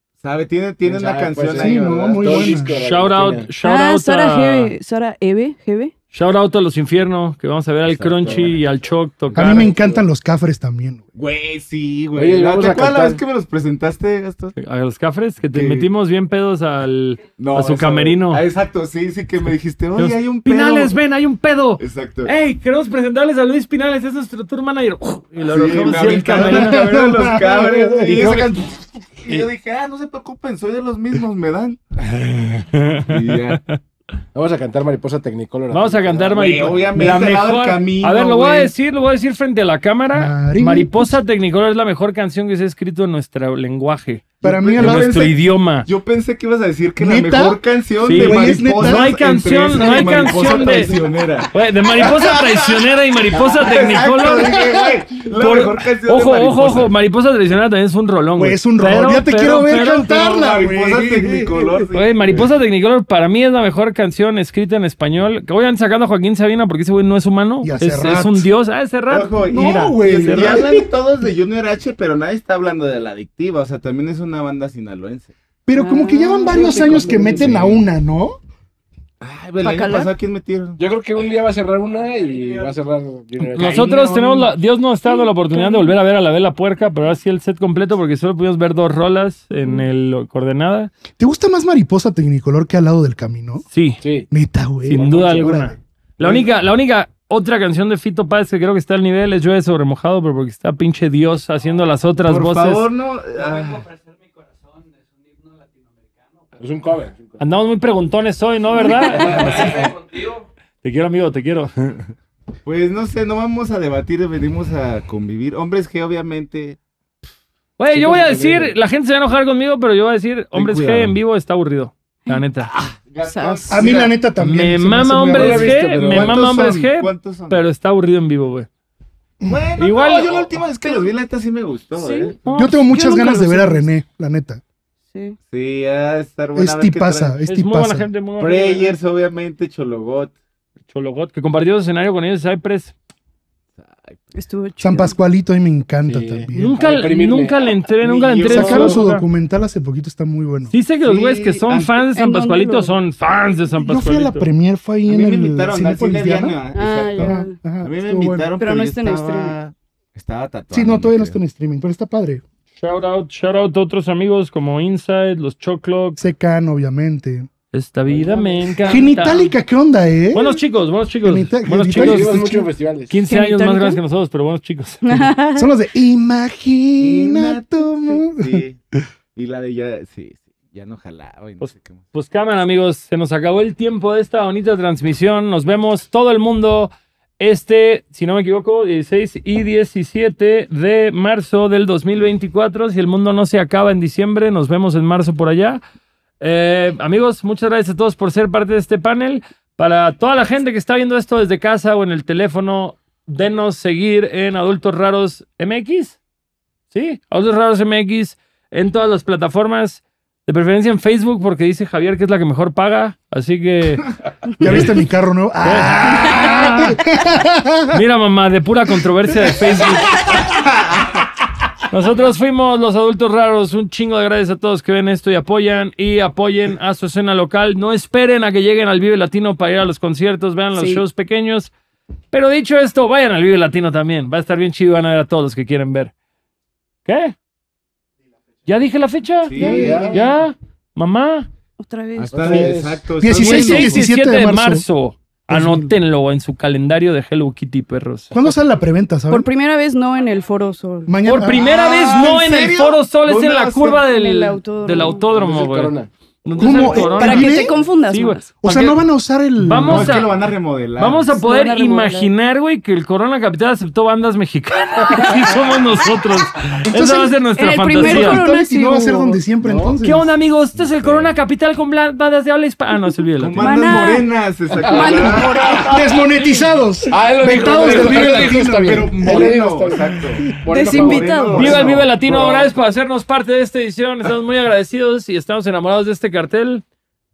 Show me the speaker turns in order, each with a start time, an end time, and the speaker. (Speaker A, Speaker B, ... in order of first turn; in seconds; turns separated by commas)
Speaker A: 0.2-2.8, Speaker B: 0.8-3.5, Speaker C: 1.5-2.8, Speaker D: 2.8-4.7, Speaker E: 3.6-5.9, Speaker D: 6.1-9.7, Speaker B: 7.8-8.6, Speaker B: 9.3-10.0, Speaker C: 9.3-11.0, Speaker A: 11.1-14.5, Speaker B: 12.1-13.2, Speaker D: 14.6-18.4, Speaker A: 15.5-15.9, Speaker A: 17.4-20.9, Speaker D: 20.0-27.0, Speaker A: 21.8-22.3, Speaker A: 25.4-31.8, Speaker C: 26.3-28.5, Speaker D: 32.1-33.8, Speaker A: 33.0-33.6, Speaker B: 34.3-37.1, Speaker D: 35.7-45.9, Speaker A: 36.3-38.7, Speaker C: 40.1-41.1, Speaker C: 44.4-45.1, Speaker A: 44.4-56.9, Speaker C: 47.0-49.1, Speaker D: 48.0-50.9, Speaker C: 49.7-50.9, Speaker D: 51.5-60.2, Speaker C: 58.4-61.9, Speaker A: 60.1-62.5, Speaker D: 62.0-70.7, Speaker C: 67.6-68.5, Speaker A: 69.1-75.3, Speaker C: 69.5-70.9, Speaker C: 75.7-78.4, Speaker E: 75.8-77.4, Speaker B: 76.5-77.8, Speaker A: 79.2-80.8, Speaker E: 79.6-80.1, Speaker B: 80.8-83.9, Speaker C: 83.4-84.5, Speaker D: 83.6-90.9, Speaker E: 85.0-86.0, Speaker C: 91.2-93.6, Speaker D: 93.7-94.0, Speaker B: 94.0-94.3, Speaker C: 94.3-95.8, Speaker D: 94.8-102.8, Speaker B: 95.0-95.6, Speaker A: 102.2-103.9, Speaker B: 106.5-107.4, Speaker D: 107.4-110.2, Speaker E: 108.8-109.2, Speaker B: 108.9-110.0, Speaker D: 110.8-112.1, Speaker A: 112.6-116.8, Speaker D: 117.8-122.7, Speaker B: 117.9-118.8, Speaker A: 120.5-121.1, Speaker A: 122.7-124.1, Speaker E: 123.2-123.9, Speaker C: 123.7-126.8, Speaker D: 124.3-128.7, Speaker B: 125.3-126.5, Speaker A: 126.0-127.6, Speaker A: 129.5-132.4, Speaker D: 129.8-130.6, Speaker E: 130.8-131.1, Speaker E: 132.0-132.3, Speaker D: 132.4-133.8, Speaker C: 132.5-134.6, Speaker A: 135.5-137.4, Speaker C: 136.5-138.1, Speaker D: 137.4-138.9, Speaker A: 138.4-140.3, Speaker D: 140.9-142.9, Speaker A: 143.8-144.2, Speaker E: 144.3-145.2, Speaker C: 144.8-146.8, Speaker B: 146.0-149.0, Speaker D: 146.5-149.2, Speaker A: 148.4-148.9, Speaker C: 148.5-150.7, Speaker D: 150.7-154.4, Speaker A: 151.0-152.0, Speaker E: 151.5-153.0, Speaker C: 153.8-156.6, Speaker A: 155.1-161.4, Speaker E: 156.7-157.5, Speaker C: 157.2-158.5, Speaker E: 158.6-159.6, Speaker C: 160.7-162.4, Speaker D: 162.8-166.2, Speaker C: 166.2-167.5, Speaker D: 167.7-169.5, Speaker C: 168.8-170.6, Speaker D: 170.3-172.4, Speaker C: 171.2-172.7, Speaker B: 171.9-173.2, Speaker D: 173.1-175.3, Speaker E: 173.3-174.0, Speaker E: 175.0-175.7, Speaker C: 175.6-178.6, Speaker A: 177.0-177.7, Speaker A: 178.3-178.8, Speaker A: 179.3-182.0, Speaker D: 181.6-195.8, Speaker D: 196.4-206.2, Speaker D: 206.9-215.0, Speaker C: 214.6-218.0, Speaker D: 215.6-217.0, Speaker D: 217.9-220.4, Speaker A: 220.5-221.1, Speaker D: 221.9-231.7, Speaker E: 230.7-231.0, Speaker D: 232.3-236.1, Speaker D: 237.1-237.3, Speaker D: 238.7-241.5, Speaker A: 239.4-240.2, Speaker E: 239.6-240.2, Speaker B: 239.6-240.2, Speaker E: 241.8-242.7, Speaker A: 242.2-244.0, Speaker B: 242.3-243.1, Speaker C: 243.2-244.8, Speaker D: 243.3-248.3, Speaker C: 245.5-245.9, Speaker C: 248.3-249.5, Speaker E: 249.3-251.1, Speaker C: 251.1-251.7, Speaker D: 251.2-259.0, Speaker A: 251.6-254.0, Speaker E: 254.1-255.2, Speaker B: 255.3-256.1, Speaker C: 256.6-257.8, Speaker E: 256.7-258.5, Speaker C: 258.6-260.2, Speaker D: 259.6-260.3, Speaker A: 259.8-261.3, Speaker D: 261.0-268.4, Speaker E: 261.3-262.3, Speaker E: 265.1-265.3, Speaker C: 266.9-267.3, Speaker E: 267.6-269.4, Speaker C: 268.0-270.3, Speaker B: 269.6-270.0, Speaker D: 270.0-273.6, Speaker A: 270.7-271.3, Speaker A: 273.4-276.0, Speaker E: 273.6-276.1, Speaker B: 274.8-275.4, Speaker C: 275.9-279.5, Speaker B: 277.1-282.7, Speaker A: 277.6-282.1, Speaker E: 280.7-281.9, Speaker D: 281.6-286.8